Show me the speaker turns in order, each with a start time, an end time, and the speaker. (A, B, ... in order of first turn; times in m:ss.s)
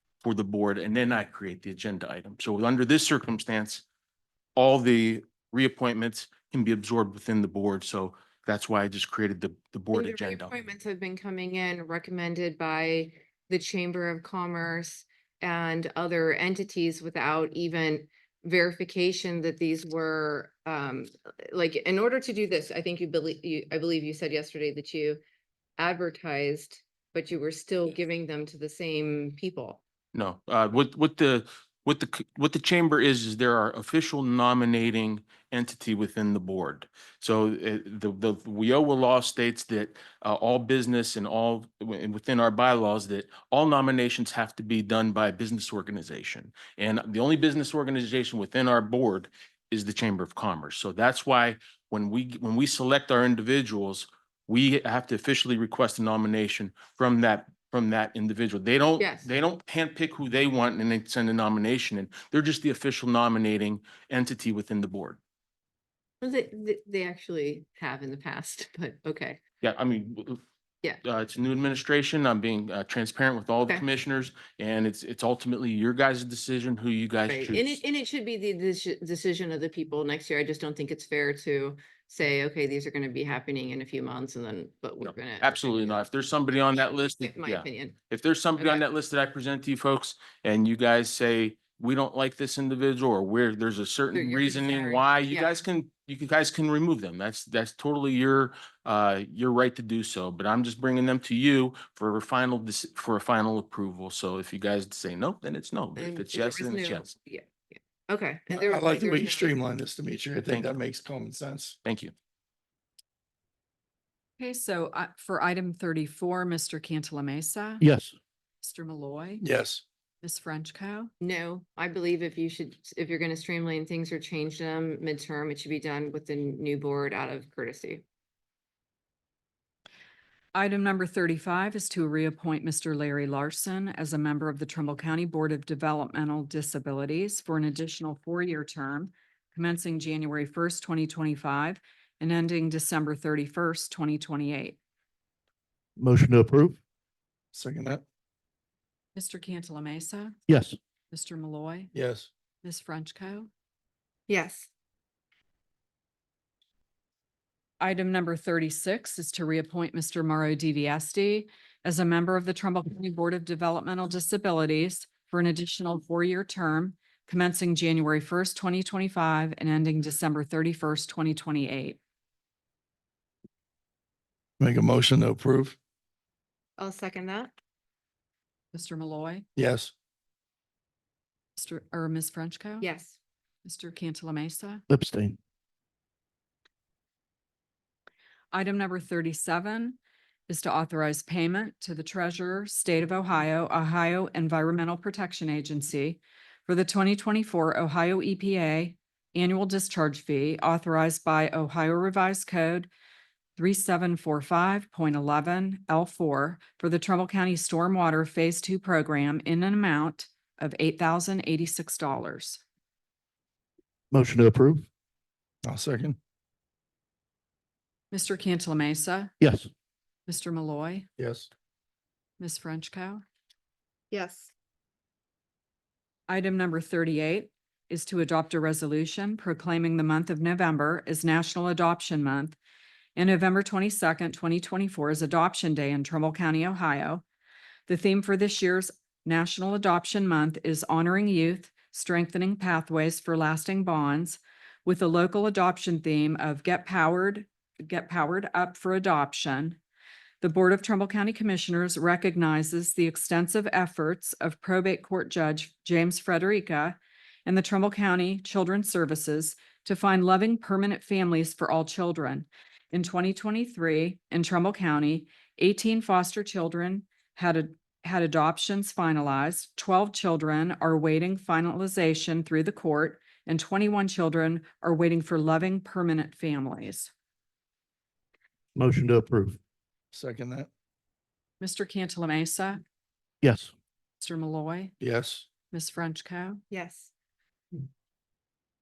0:00.2-0:03.8 A
0:04.6-0:10.6 A
0:09.9-0:25.2 B
0:25.8-0:29.8 B
0:30.1-1:05.2 A
0:59.0-0:59.3 B
1:06.2-1:09.4 B
1:09.6-1:10.4 A
1:11.0-1:17.8 A
1:17.3-1:26.0 B
1:25.0-1:47.1 A
1:27.2-1:28.0 B
1:28.6-1:28.8 B
1:34.1-1:35.5 B
1:46.0-1:49.5 B
1:48.5-1:51.8 C
1:50.5-1:50.8 A
1:51.8-1:52.1 A
1:54.4-1:57.8 D
1:57.8-1:58.1 E
1:58.6-1:59.4 D
1:59.4-1:59.8 C
2:00.2-2:01.1 D
2:01.2-2:08.0 B
2:10.5-2:24.8 D
2:26.0-2:26.8 E
2:27.5-2:28.0 C
2:29.2-2:30.4 D
2:30.5-2:30.8 E
2:31.1-2:31.9 D
2:31.9-2:32.3 C
2:32.6-2:33.5 D
2:34.3-2:34.7 B
2:37.8-2:52.0 D
2:54.6-2:55.8 C
2:56.8-2:57.5 B
2:58.7-2:59.4 D
2:59.6-2:59.9 C
3:01.6-3:02.9 D
3:02.8-3:03.2 B
3:03.6-3:04.8 D
3:04.9-3:05.4 E
3:08.5-3:22.9 D
3:23.6-3:32.6 D
3:34.1-3:34.9 E
3:35.6-3:36.2 C
3:38.1-3:39.3 D
3:39.4-3:39.7 E
3:40.3-3:41.1 D
3:41.2-3:41.5 C
3:42.4-3:43.2 D
3:44.1-3:44.5 B
3:46.3-3:52.6 D
3:53.2-3:57.2 D
3:57.9-4:09.8 D
4:10.4-4:37.1 D
4:38.8-4:39.6 E
4:40.1-4:40.7 C
4:41.6-4:42.8 D
4:43.4-4:43.7 E
4:44.2-4:45.0 D
4:45.0-4:45.5 C
4:45.7-4:46.6 D
4:46.7-4:47.1 B